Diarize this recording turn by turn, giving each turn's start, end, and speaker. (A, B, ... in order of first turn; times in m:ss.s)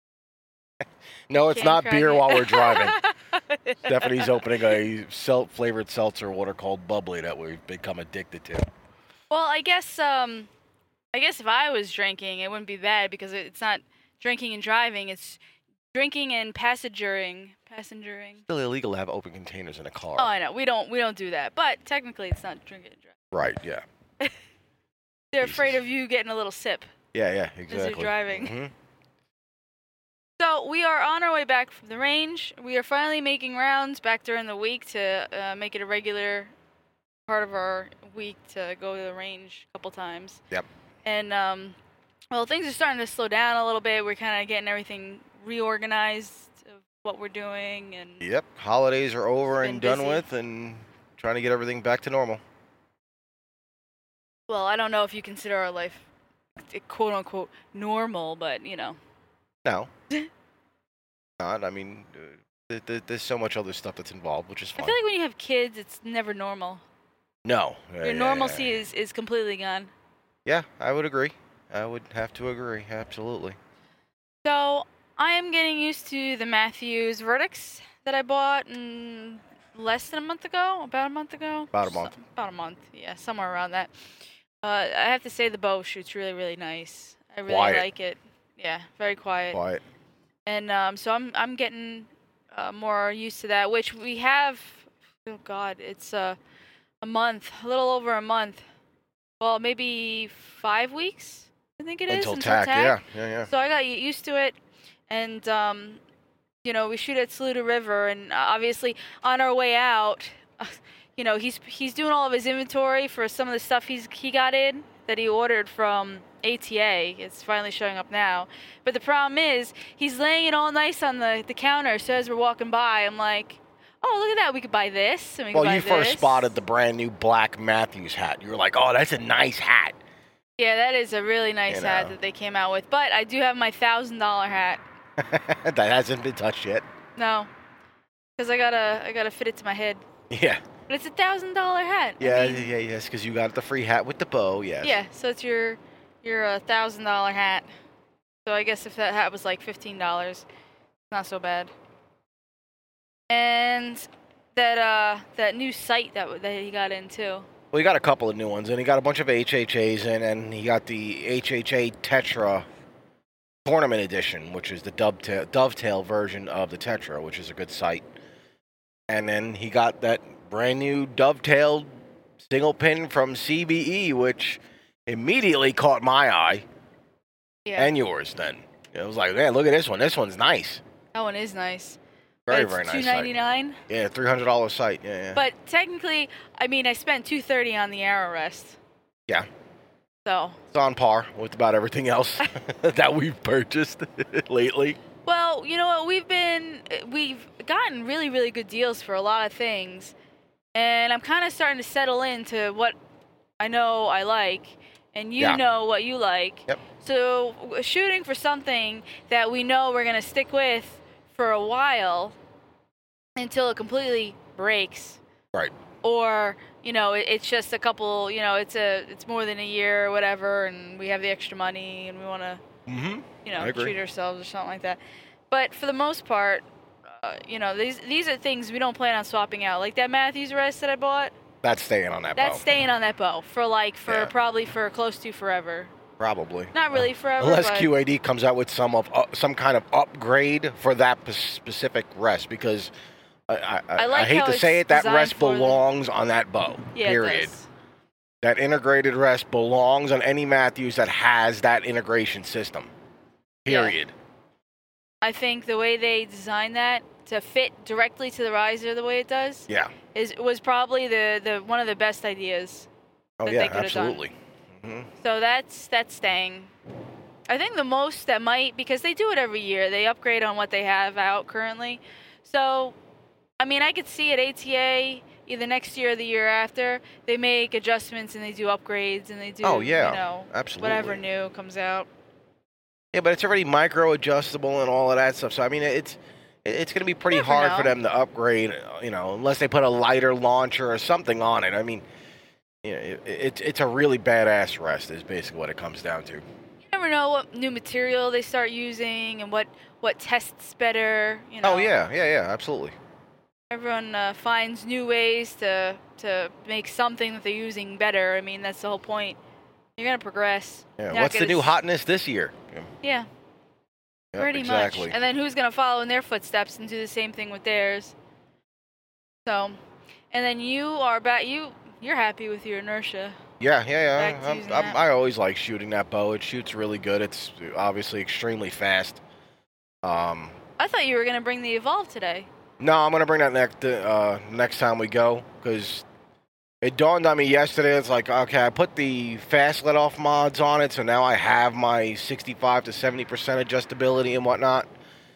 0:01.3-0:03.0 A
0:01.4-0:04.6 B
0:03.8-0:08.6 A
0:09.3-0:10.5 B
0:11.1-0:15.4 B
0:15.9-0:18.4 B
0:18.5-0:20.3 A
0:20.2-0:23.1 B
0:23.3-0:23.8 A
0:25.3-0:26.9 B
0:25.4-0:25.8 A
0:27.1-0:28.7 A
0:27.7-0:28.5 B
0:30.4-0:36.5 B
0:37.3-0:40.4 B
0:41.0-0:41.8 B
0:42.3-0:48.2 B
0:48.2-0:52.4 A
0:49.6-0:50.3 B
0:54.5-0:59.0 B
1:01.4-1:05.0 A
1:04.8-1:06.8 B
1:07.4-1:08.8 A
1:08.0-1:09.9 B
1:10.4-1:13.6 A
1:14.4-1:23.9 B
1:21.7-1:22.1 A
1:24.6-1:29.6 B
1:27.5-1:27.9 A
1:29.5-1:29.8 A
1:30.4-1:36.4 B
1:37.0-1:38.6 B
1:39.4-1:44.6 B
1:42.1-1:43.5 A
1:45.1-1:46.0 B
1:46.6-2:06.6 B
2:05.5-2:10.0 A
2:10.6-2:14.8 B
2:11.7-2:12.2 A
2:15.2-2:16.8 A
2:17.2-2:17.5 B
2:18.4-2:20.0 B
2:20.3-2:20.6 A
2:20.9-2:22.7 B
2:22.2-2:25.0 A
2:24.8-2:27.7 B
2:28.4-2:30.4 B
2:31.1-2:31.7 B
2:33.3-2:37.5 B
2:37.7-2:42.6 A
2:43.6-2:48.0 A
2:49.1-2:56.6 A
2:57.6-2:57.9 B
2:57.8-3:00.8 A
3:01.1-3:03.8 B
3:02.5-3:03.4 A
3:03.9-3:05.4 A
3:05.3-3:08.8 B
3:10.2-3:10.6 B
3:10.7-3:15.0 A
3:15.2-3:20.1 B
3:20.7-3:22.9 B
3:23.6-3:32.4 B
3:33.4-3:35.2 B
3:36.0-3:42.6 B
3:42.8-3:44.0 A
3:43.4-3:45.0 B
3:45.5-3:51.3 B
3:51.6-3:52.6 A
3:52.4-3:55.9 B
3:54.1-3:54.3 A
3:56.2-4:02.9 A
3:56.7-3:57.9 B
4:03.5-4:07.6 A
4:04.0-4:05.8 B
4:06.9-4:07.7 B
4:08.4-4:12.9 A
4:13.6-4:14.1 A
4:13.7-4:14.0 B
4:15.2-4:22.9 B
4:19.7-4:19.9 A
4:23.4-4:25.1 A
4:23.4-4:24.2 B
4:25.2-4:26.7 B
4:27.5-4:33.0 B
4:33.6-4:42.1 B
4:39.6-4:41.2 A
4:43.1-4:52.0 A
4:47.3-4:47.9 B
4:52.8-4:56.4 A
4:56.9-5:01.9 B
5:01.6-5:02.9 A
5:03.7-5:09.4 B
5:10.0-5:11.8 B
5:11.0-5:12.9 A
5:13.0-5:13.3 B
5:14.3-5:15.2 A
5:14.4-5:18.1 B
5:19.4-5:19.8 B
5:20.3-5:23.4 B
5:23.6-5:29.2 A
5:24.2-5:25.0 B
5:30.0-5:30.5 A
5:30.8-5:32.5 B
5:32.8-5:36.0 A
5:36.8-5:44.9 A